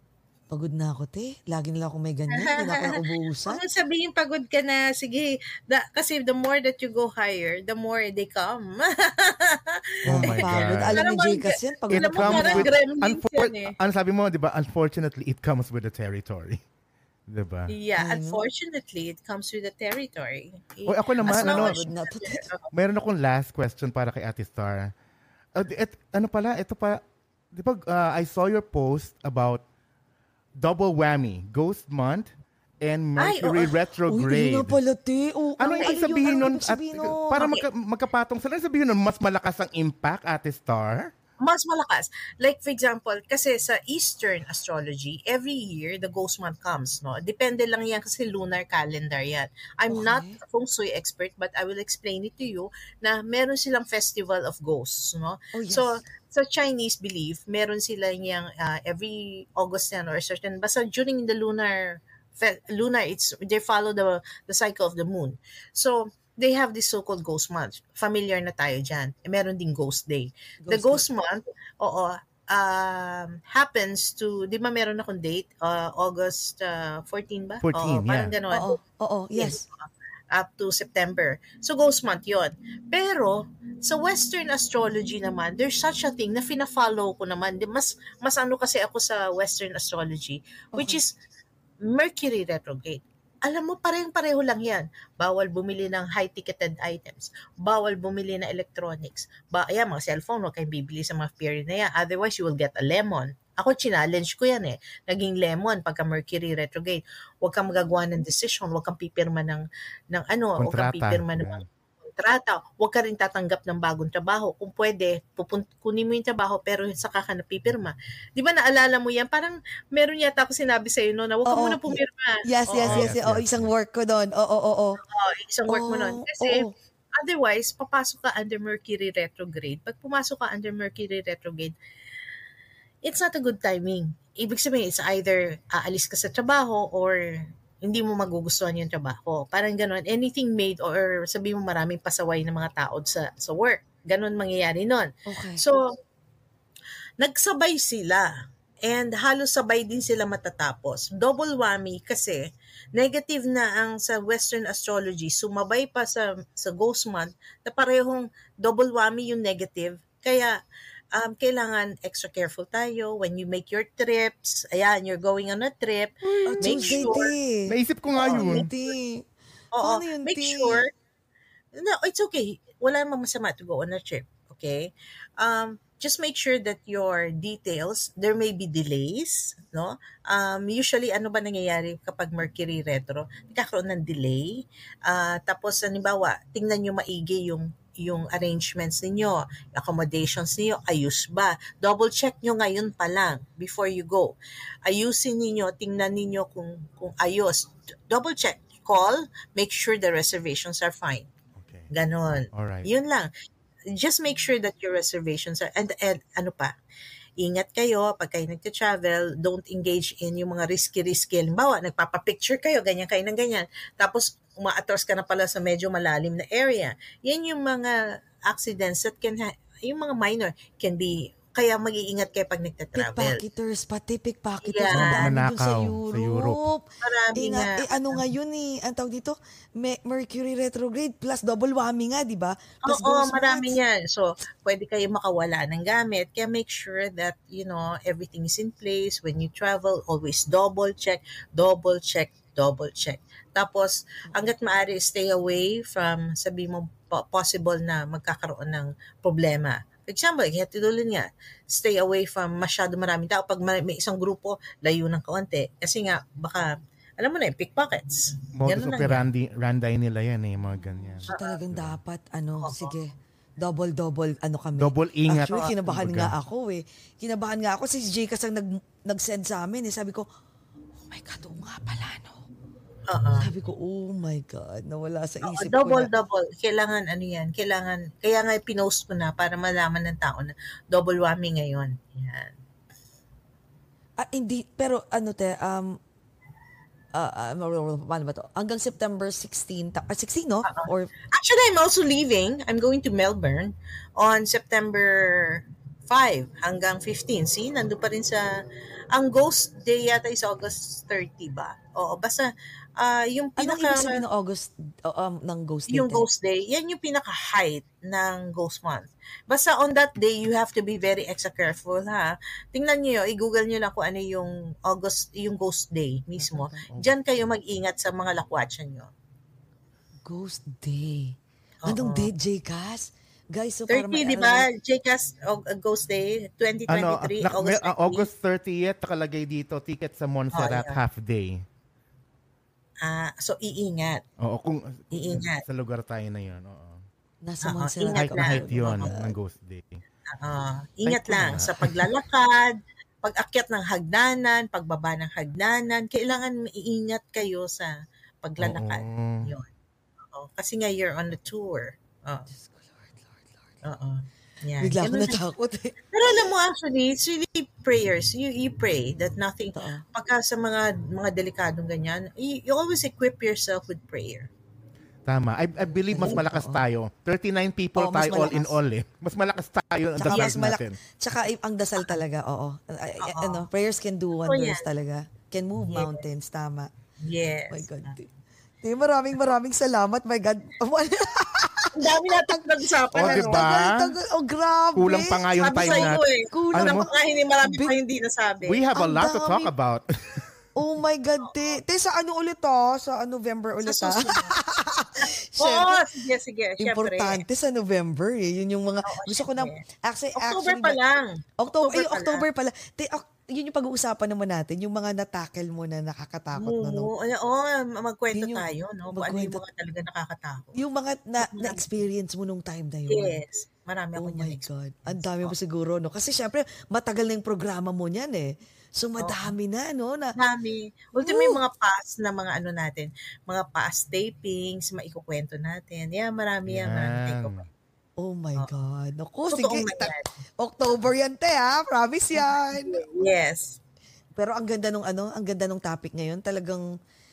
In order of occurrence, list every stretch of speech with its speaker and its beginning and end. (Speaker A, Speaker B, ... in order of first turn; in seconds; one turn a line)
Speaker A: 0.5-3.6
Speaker B: 2.3-13.8
Speaker C: 10.1-11.0
Speaker A: 10.1-12.7
Speaker C: 11.9-16.6
Speaker C: 17.3-17.7
Speaker B: 17.7-22.7
Speaker A: 18.0-18.4
Speaker C: 20.9-21.8
Speaker A: 21.2-22.4
Speaker C: 22.7-24.9
Speaker C: 25.6-27.0
Speaker C: 27.5-29.6
Speaker C: 30.6-32.3
Speaker C: 32.8-34.8
Speaker B: 33.2-33.7
Speaker A: 34.1-37.5
Speaker C: 35.6-41.1
Speaker B: 35.7-36.5
Speaker B: 37.4-37.6
Speaker B: 41.4-78.8
Speaker A: 49.9-50.4
Speaker A: 55.5-56.0
Speaker A: 70.6-71.0
Speaker C: 77.6-78.3
Speaker A: 78.5-79.6
Speaker B: 79.3-91.1
Speaker A: 90.8-91.0
Speaker B: 91.8-123.1
Speaker C: 110.6-111.6
Speaker A: 121.5-125.0
Speaker C: 122.8-123.7
Speaker B: 125.1-131.8
Speaker A: 125.7-126.7
Speaker B: 133.0-145.9
Speaker A: 145.3-145.6
Speaker B: 147.2-148.3
Speaker B: 148.8-160.6
Speaker B: 161.1-167.3
Speaker C: 166.2-167.1
Speaker A: 166.5-169.3
Speaker C: 167.7-168.7
Speaker B: 168.2-168.7
Speaker B: 169.8-170.9
Speaker A: 169.8-170.8
Speaker B: 171.8-201.3
Speaker C: 201.6-201.9
Speaker B: 201.9-203.3
Speaker C: 202.5-202.9
Speaker B: 203.9-206.7
Speaker B: 207.4-223.4
Speaker A: 222.9-233.8
Speaker B: 224.6-225.3
Speaker C: 224.9-226.7
Speaker B: 227.0-228.2
Speaker B: 232.9-259.2
Speaker C: 258.6-262.0
Speaker A: 261.2-270.2
Speaker B: 261.3-261.6
Speaker B: 262.6-262.9
Speaker C: 264.8-266.3
Speaker A: 271.0-272.5
Speaker B: 273.1-273.5
Speaker A: 273.4-276.1
Speaker B: 275.4-282.6
Speaker A: 284.2-286.0
Speaker A: 287.1-291.1
Speaker B: 290.7-298.5
Speaker B: 299.1-304.2
Speaker A: 303.6-306.3
Speaker B: 305.9-319.1
Speaker C: 316.8-317.1
Speaker A: 320.2-324.7
Speaker B: 321.9-322.3
Speaker B: 323.9-328.3
Speaker C: 326.9-331.6
Speaker B: 330.5-331.0
Speaker B: 333.0-334.2
Speaker C: 334.4-337.0
Speaker B: 335.1-335.6
Speaker A: 337.4-339.4
Speaker B: 337.6-339.2
Speaker C: 338.1-340.0
Speaker B: 340.4-349.7
Speaker C: 341.1-342.0
Speaker C: 348.6-349.5
Speaker B: 350.3-352.5
Speaker A: 352.6-353.4
Speaker B: 353.8-355.4
Speaker A: 354.8-356.3
Speaker B: 356.1-364.5
Speaker A: 359.8-360.1
Speaker C: 365.3-371.0
Speaker A: 365.8-366.8
Speaker A: 368.0-368.8
Speaker A: 370.2-376.9
Speaker B: 370.3-370.6
Speaker B: 373.2-373.7
Speaker B: 374.4-374.9
Speaker B: 375.9-376.2
Speaker B: 377.2-378.1
Speaker A: 377.7-378.3
Speaker A: 378.8-387.1
Speaker B: 381.9-383.9
Speaker C: 383.1-384.2
Speaker C: 384.9-387.1
Speaker B: 385.6-388.8
Speaker A: 387.6-387.9
Speaker C: 388.7-390.5
Speaker A: 388.9-389.7
Speaker A: 390.8-396.1
Speaker B: 391.4-391.8
Speaker B: 393.8-394.6
Speaker B: 395.2-397.4
Speaker A: 396.8-401.0
Speaker B: 399.1-399.8
Speaker B: 400.4-402.5
Speaker A: 401.6-407.1
Speaker B: 406.5-410.8
Speaker A: 408.3-409.6
Speaker A: 410.8-413.4
Speaker B: 411.4-411.9
Speaker B: 413.1-415.6
Speaker A: 414.2-420.4
Speaker B: 419.2-419.5
Speaker B: 420.4-427.6
Speaker A: 421.1-421.6
Speaker C: 426.7-427.7
Speaker A: 428.2-433.1
Speaker B: 429.5-430.4
Speaker B: 432.4-433.8
Speaker A: 434.4-436.9